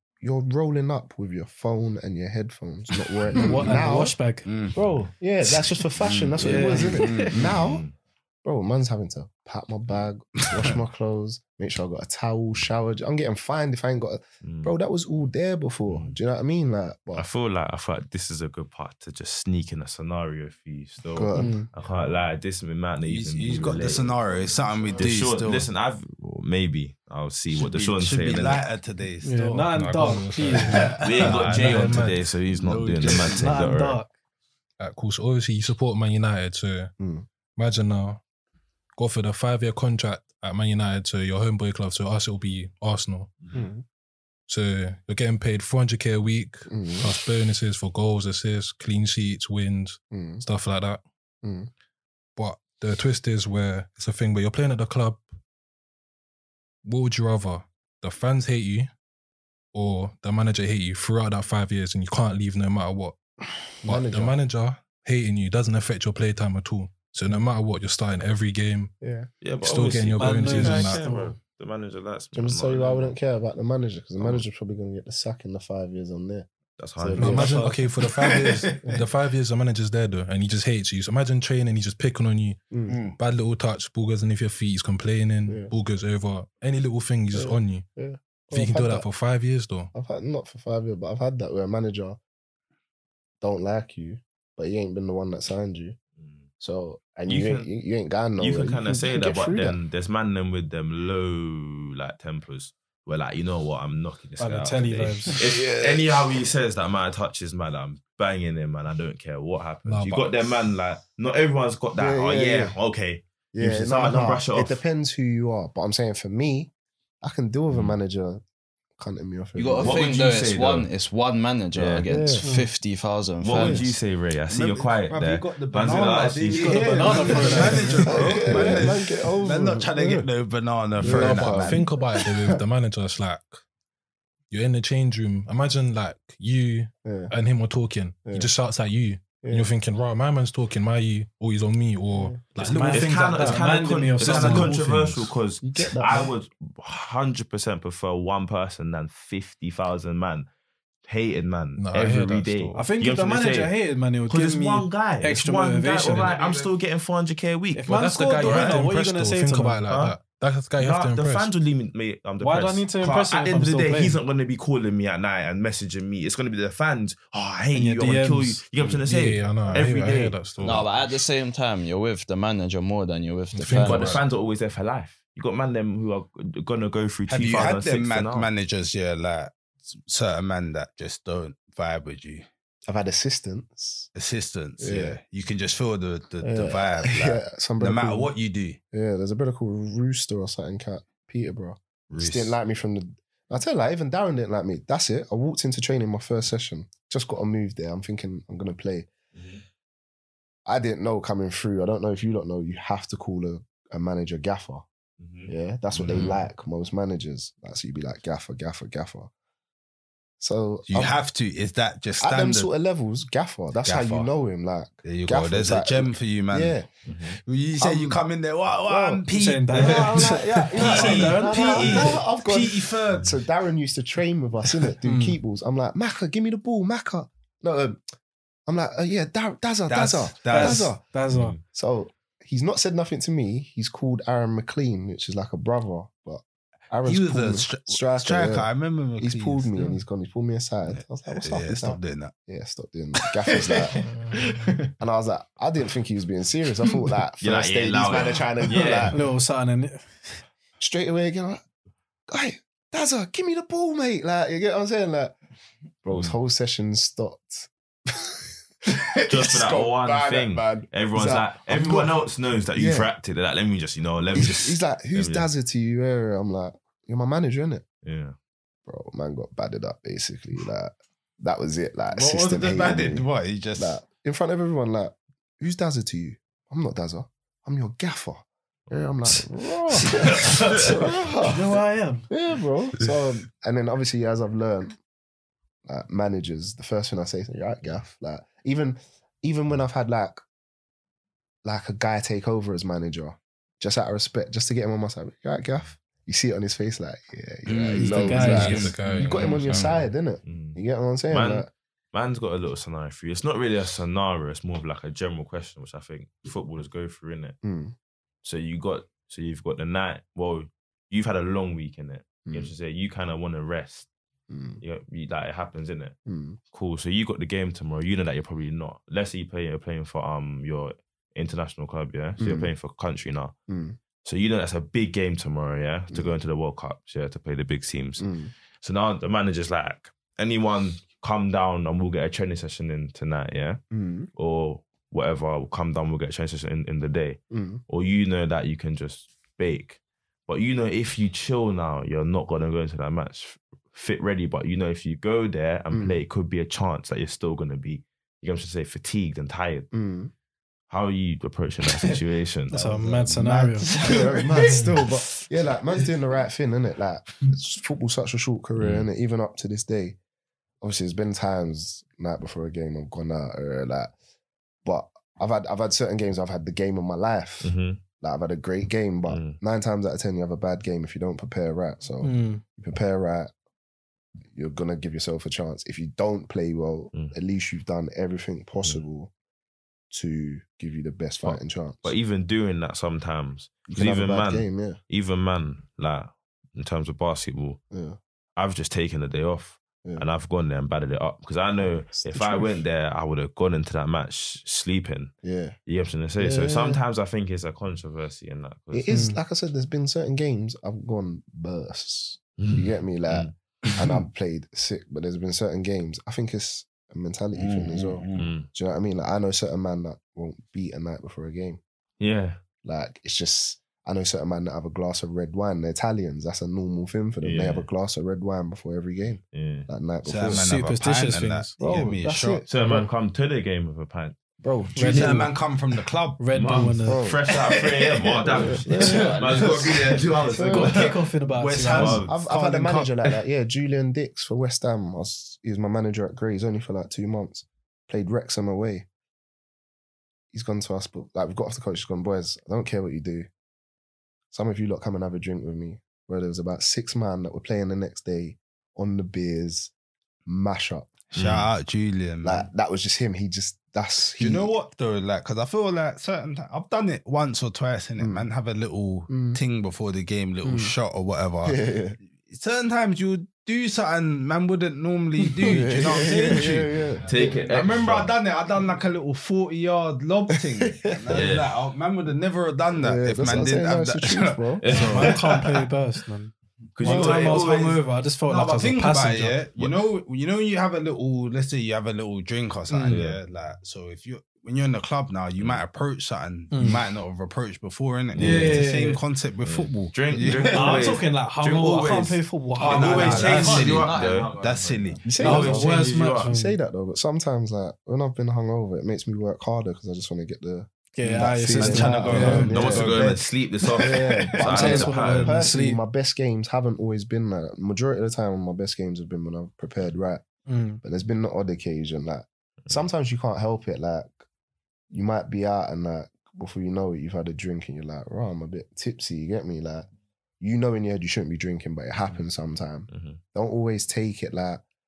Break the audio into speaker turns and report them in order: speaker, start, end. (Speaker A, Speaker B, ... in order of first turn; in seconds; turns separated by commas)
Speaker A: 0.2-4.2, Speaker B: 3.2-3.8, Speaker C: 3.4-5.1, Speaker B: 4.5-7.6, Speaker A: 5.2-7.8, Speaker C: 6.4-7.4, Speaker D: 7.4-8.0, Speaker A: 8.4-17.3, Speaker B: 10.5-10.8, Speaker D: 14.4-14.7, Speaker D: 15.9-16.2, Speaker D: 17.1-28.7, Speaker A: 21.1-21.6, Speaker C: 21.4-21.7, Speaker B: 23.0-25.7, Speaker B: 27.5-32.0, Speaker C: 29.2-32.1, Speaker E: 29.4-32.3, Speaker D: 31.0-34.0, Speaker B: 32.6-33.5, Speaker C: 33.0-34.1, Speaker E: 34.8-36.9, Speaker A: 37.0-37.3, Speaker E: 37.6-38.2, Speaker E: 39.0-43.3, Speaker A: 43.5-43.8, Speaker E: 44.5-51.0, Speaker A: 46.7-47.1, Speaker A: 50.1-50.5, Speaker A: 51.4-51.7, Speaker E: 52.4-55.3, Speaker E: 56.8-58.9, Speaker E: 59.7-63.2, Speaker A: 63.8-64.4, Speaker E: 63.8-68.9, Speaker A: 69.0-69.3, Speaker D: 69.4-73.2, Speaker E: 69.6-71.1, Speaker C: 70.2-71.3, Speaker A: 72.3-77.7, Speaker D: 76.8-77.8, Speaker E: 77.2-87.9, Speaker C: 77.2-77.8, Speaker B: 78.0-79.0, Speaker A: 82.7-83.0, Speaker B: 82.9-83.2, Speaker A: 85.5-85.7, Speaker A: 87.3-89.1, Speaker E: 88.5-89.9, Speaker A: 89.9-92.2, Speaker A: 93.4-96.0, Speaker D: 96.2-96.5, Speaker A: 96.6-99.8, Speaker D: 97.3-97.7, Speaker D: 98.4-114.8, Speaker C: 104.4-105.4, Speaker A: 105.4-106.2, Speaker E: 109.8-110.3, Speaker A: 112.0-112.8, Speaker A: 113.5-116.7, Speaker A: 117.2-118.4, Speaker D: 117.7-118.0, Speaker A: 119.0-120.0, Speaker F: 119.5-124.0, Speaker D: 119.8-120.9, Speaker D: 121.8-122.1, Speaker A: 122.1-122.5, Speaker C: 122.4-122.7, Speaker D: 123.4-128.4, Speaker A: 123.6-123.9, Speaker B: 124.5-131.8, Speaker C: 126.5-128.7, Speaker A: 128.1-130.3, Speaker A: 131.0-132.6, Speaker E: 131.0-133.6, Speaker E: 134.5-145.3, Speaker A: 137.1-137.3, Speaker A: 138.2-138.5, Speaker A: 139.4-139.7, Speaker A: 142.1-142.4, Speaker C: 142.6-144.8, Speaker D: 142.7-150.5, Speaker A: 145.6-146.3, Speaker D: 151.1-153.8, Speaker E: 151.8-152.9, Speaker C: 152.8-156.3, Speaker D: 154.3-158.9, Speaker B: 156.1-156.7, Speaker C: 157.8-159.8, Speaker E: 157.9-161.5, Speaker D: 159.8-160.2, Speaker D: 160.8-170.5, Speaker C: 162.4-164.2, Speaker C: 167.7-168.6, Speaker E: 168.9-170.9, Speaker F: 170.6-174.2, Speaker E: 173.5-174.2, Speaker D: 173.7-178.5, Speaker B: 177.3-182.5, Speaker A: 182.9-184.1, Speaker B: 184.2-188.8, Speaker A: 184.8-185.2, Speaker A: 186.4-188.3, Speaker A: 188.9-199.1, Speaker B: 192.1-192.6, Speaker D: 199.3-199.6, Speaker A: 200.7-204.8, Speaker D: 205.2-205.5, Speaker A: 205.5-209.3, Speaker B: 206.0-206.4, Speaker A: 210.4-211.2, Speaker B: 210.9-212.7, Speaker A: 212.2-216.9, Speaker B: 213.8-214.3, Speaker B: 215.1-216.8, Speaker D: 217.1-217.4, Speaker B: 217.4-223.3, Speaker A: 217.8-218.2, Speaker A: 218.9-228.0, Speaker C: 219.3-222.2, Speaker C: 225.0-225.4, Speaker A: 228.7-231.0, Speaker B: 229.9-230.9, Speaker C: 230.5-231.6, Speaker D: 231.3-231.6, Speaker A: 231.7-244.0, Speaker B: 237.1-240.0, Speaker B: 240.9-242.3, Speaker B: 243.2-244.1, Speaker A: 245.0-249.2, Speaker D: 247.4-249.2, Speaker C: 249.1-250.4, Speaker A: 250.8-251.6, Speaker A: 252.3-255.4, Speaker A: 256.0-262.2, Speaker D: 259.3-265.5, Speaker A: 262.8-263.1, Speaker A: 264.4-267.9, Speaker D: 268.0-268.4, Speaker A: 268.9-281.7, Speaker B: 272.1-274.0, Speaker D: 280.4-280.9, Speaker C: 281.4-282.3, Speaker A: 282.3-285.0, Speaker A: 285.9-290.4, Speaker A: 291.6-301.7, Speaker B: 297.7-299.0, Speaker C: 298.0-298.9, Speaker E: 298.1-300.1, Speaker D: 299.1-300.8, Speaker D: 301.3-307.6, Speaker A: 307.6-308.0, Speaker D: 308.4-314.1, Speaker A: 312.5-312.7, Speaker A: 314.5-314.8, Speaker D: 314.8-316.2, Speaker A: 316.3-316.6, Speaker D: 316.7-323.6, Speaker A: 322.4-322.7, Speaker A: 323.7-324.0, Speaker D: 324.2-333.8, Speaker A: 328.2-328.5, Speaker A: 333.9-334.3, Speaker D: 334.4-349.9, Speaker A: 337.5-337.8, Speaker A: 345.9-346.2, Speaker A: 349.9-350.3, Speaker D: 350.9-352.8, Speaker B: 351.8-352.2, Speaker C: 352.7-353.9, Speaker B: 352.7-356.1, Speaker A: 354.0-360.2, Speaker D: 358.8-359.1, Speaker A: 360.8-364.1, Speaker A: 364.9-373.5, Speaker D: 367.6-368.0, Speaker D: 369.3-369.6, Speaker C: 372.2-372.6, Speaker A: 374.5-379.3, Speaker A: 380.1-382.1, Speaker D: 381.4-387.8, Speaker A: 383.9-385.0, Speaker A: 387.9-388.2, Speaker D: 388.6-395.3, Speaker A: 391.8-392.8, Speaker A: 395.4-395.8, Speaker D: 395.9-399.1, Speaker A: 396.4-397.0, Speaker A: 398.9-411.8, Speaker C: 399.1-399.4, Speaker D: 402.6-403.5, Speaker B: 403.9-404.2, Speaker B: 407.6-408.5, Speaker D: 408.4-408.7, Speaker D: 412.2-412.6, Speaker A: 412.8-420.7, Speaker D: 417.4-417.9, Speaker D: 419.5-419.9, Speaker B: 420.2-422.6, Speaker C: 420.5-421.8, Speaker A: 421.8-423.1, Speaker D: 422.7-424.4, Speaker A: 424.6-425.5, Speaker C: 425.0-425.6, Speaker B: 425.0-426.5, Speaker C: 426.4-427.2, Speaker D: 426.5-431.1, Speaker A: 427.1-427.5, Speaker B: 427.5-433.3, Speaker A: 428.4-429.8, Speaker A: 430.5-431.0, Speaker C: 430.6-432.2, Speaker D: 431.9-432.4, Speaker A: 432.3-439.1, Speaker A: 440.5-443.5, Speaker A: 444.5-449.9, Speaker A: 450.5-451.1, Speaker D: 451.3-451.7, Speaker B: 451.3-452.7, Speaker A: 452.4-454.7, Speaker B: 454.4-475.4, Speaker A: 458.2-458.5, Speaker A: 459.3-459.6, Speaker A: 460.6-460.9, Speaker A: 461.6-462.2, Speaker A: 465.6-467.3, Speaker D: 467.2-468.4, Speaker A: 471.1-471.4, Speaker D: 471.3-471.8, Speaker A: 473.0-475.2, Speaker D: 474.8-475.5, Speaker C: 474.9-479.6, Speaker D: 476.9-478.0, Speaker B: 477.0-477.6, Speaker B: 478.5-491.2, Speaker D: 479.8-480.1, Speaker C: 482.9-483.2, Speaker D: 483.1-483.4, Speaker D: 485.6-485.8, Speaker C: 486.7-487.0, Speaker D: 488.3-488.9, Speaker C: 488.4-489.2, Speaker D: 489.6-494.6, Speaker C: 490.7-494.0, Speaker B: 492.8-495.6, Speaker F: 492.9-495.5, Speaker A: 495.2-496.0, Speaker D: 495.4-496.5, Speaker C: 495.4-496.8, Speaker A: 496.5-503.3, Speaker C: 501.1-502.8, Speaker B: 501.2-505.1, Speaker D: 502.3-505.7, Speaker A: 504.0-510.4, Speaker C: 504.6-506.0, Speaker C: 510.7-511.0, Speaker A: 511.0-514.4, Speaker A: 515.1-520.1, Speaker A: 520.6-524.8, Speaker D: 523.1-523.4